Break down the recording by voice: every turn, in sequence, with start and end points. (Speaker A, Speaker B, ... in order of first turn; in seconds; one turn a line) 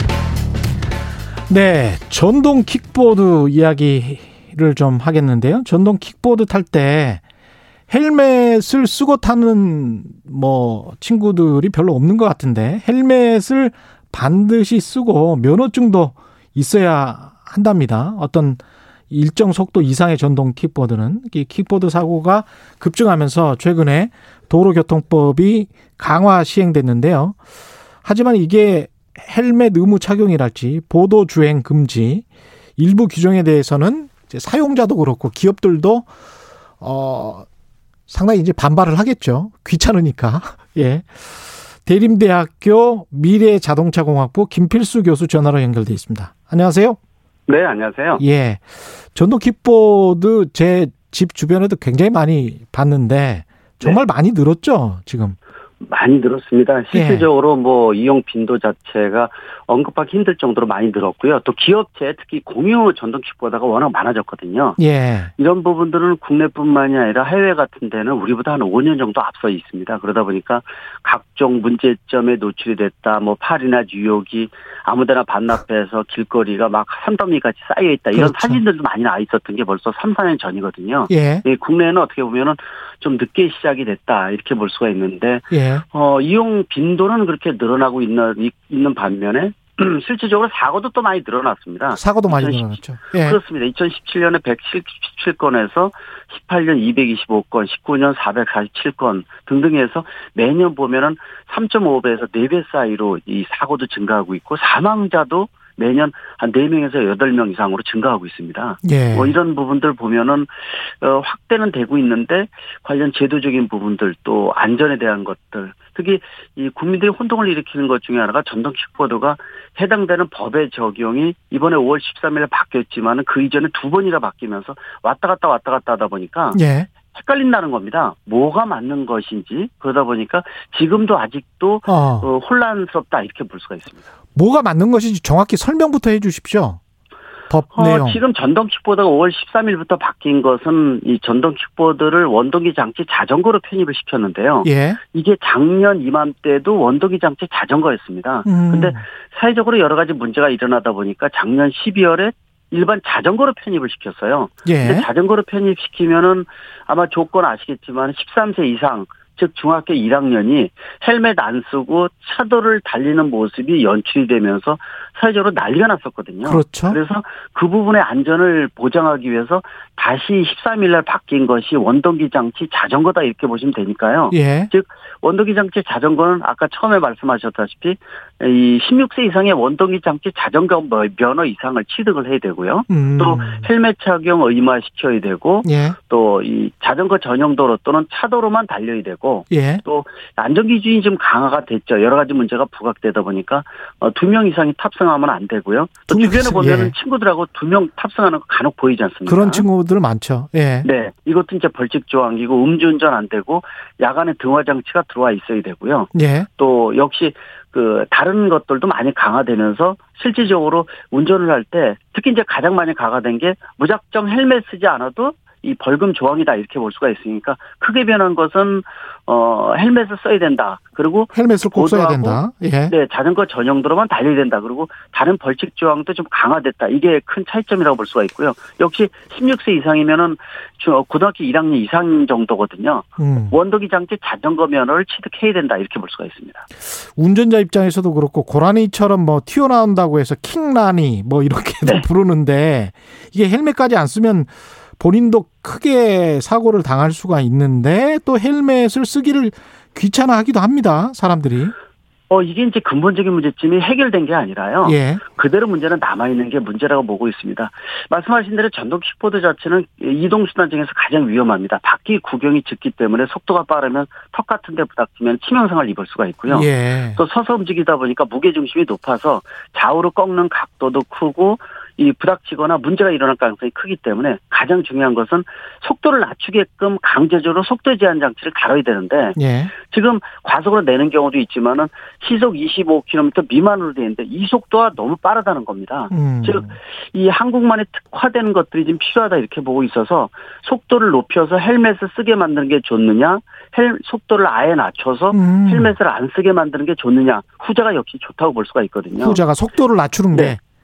Speaker A: 1.5-7.2
Speaker A: 7.9-27.4
Speaker A: 28.0-32.2
Speaker A: 32.8-36.1
Speaker A: 36.8-37.5
Speaker A: 38.1-47.0
Speaker B: 47.5-48.2
Speaker A: 48.2-55.4
Speaker B: 55.8-64.8
Speaker A: 56.9-57.3
Speaker A: 64.8-65.3
Speaker B: 65.4-126.6
Speaker A: 78.1-78.6
Speaker A: 81.1-81.5
Speaker A: 85.5-85.8
Speaker A: 92.0-93.4
Speaker A: 108.8-109.3
Speaker A: 126.5-126.9
Speaker B: 127.1-134.1
Speaker A: 131.9-132.3
Speaker A: 134.3-136.8
Speaker A: 137.5-138.2
Speaker B: 137.7-199.7
Speaker A: 144.6-145.0
Speaker A: 148.5-149.0
Speaker A: 154.7-155.1
Speaker A: 166.4-167.0
Speaker A: 174.3-174.7
Speaker A: 182.9-183.7
Speaker A: 185.7-186.0
Speaker A: 189.5-189.8
Speaker A: 196.1-196.9
Speaker A: 199.3-200.9
Speaker B: 200.8-236.7
Speaker A: 206.1-206.5
Speaker A: 221.3-222.9
Speaker A: 233.2-233.6
Speaker A: 237.2-251.7
Speaker B: 252.3-299.4
Speaker A: 254.8-255.2
Speaker A: 266.5-267.2
Speaker A: 279.4-279.7
Speaker A: 286.1-286.7
Speaker A: 295.3-295.9
Speaker A: 299.2-300.6
Speaker B: 300.3-300.6